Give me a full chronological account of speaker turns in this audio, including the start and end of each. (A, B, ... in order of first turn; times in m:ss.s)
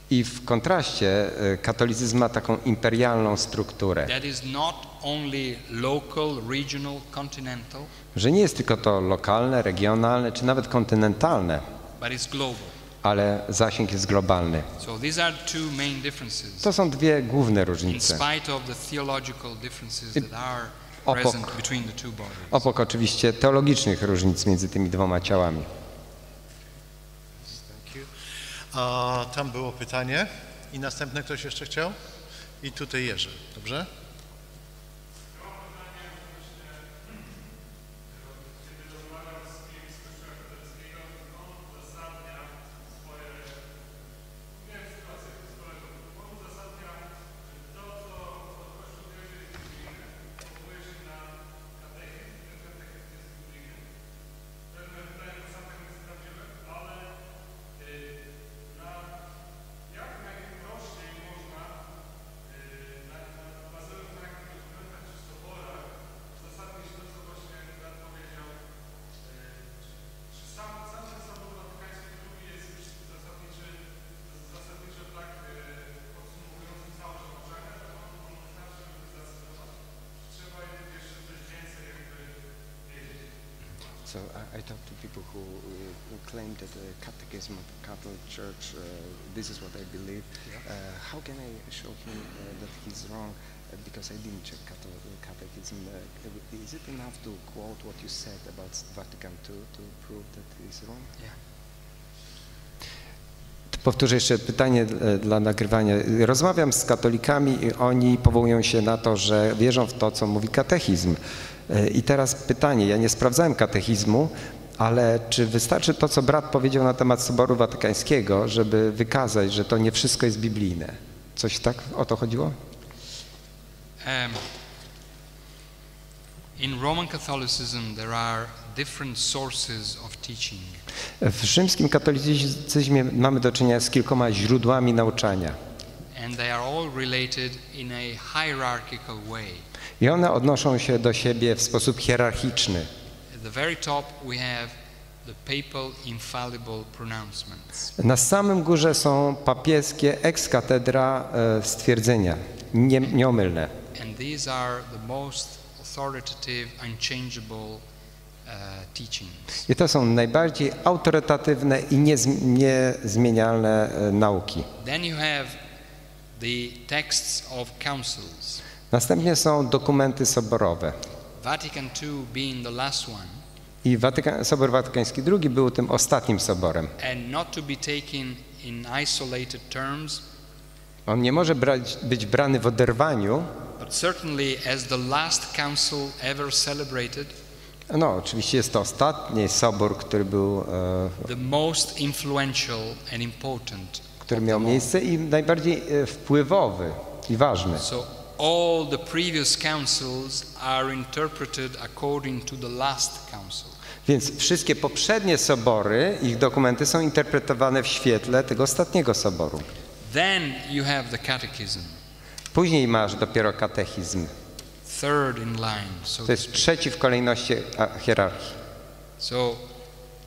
0:00.1-0:04.1 A
0:04.0-0:07.9 B
0:08.1-0:11.6 A
0:12.0-0:12.7 B
0:13.0-0:14.7 A
0:14.8-0:16.7 B
0:16.6-0:18.2 A
0:17.9-0:22.6 B
0:21.0-0:21.5 A
0:22.5-0:25.7 A
0:27.4-0:28.1 C
0:28.7-0:32.0 C
0:32.6-0:33.9 C
1:24.0-1:41.1 A
1:43.7-2:02.6 A
2:04.0-2:04.4 B
2:06.6-2:10.8 B
2:11.2-2:15.6 A
2:16.1-2:19.6 B
2:20.0-2:22.9 A
2:23.3-2:27.9 B
2:28.0-2:33.7 A
2:33.9-2:37.8 B
2:38.4-2:39.6 B
2:39.7-2:44.7 A
2:44.8-2:45.6 B
2:46.4-2:48.6 B
2:48.9-2:51.0 A
2:51.4-2:53.4 B
2:53.8-2:56.9 A
2:57.0-3:00.2 B
3:01.1-3:03.5 A
3:03.8-3:07.3 B
3:07.9-3:11.3 A
3:11.2-3:14.9 B
3:14.3-3:17.8 A
3:17.8-3:23.8 B
3:24.0-3:29.6 A
3:30.0-3:32.0 B
3:32.5-3:34.3 A
3:34.8-3:36.6 B
3:36.3-3:38.6 A
3:39.2-3:39.6 B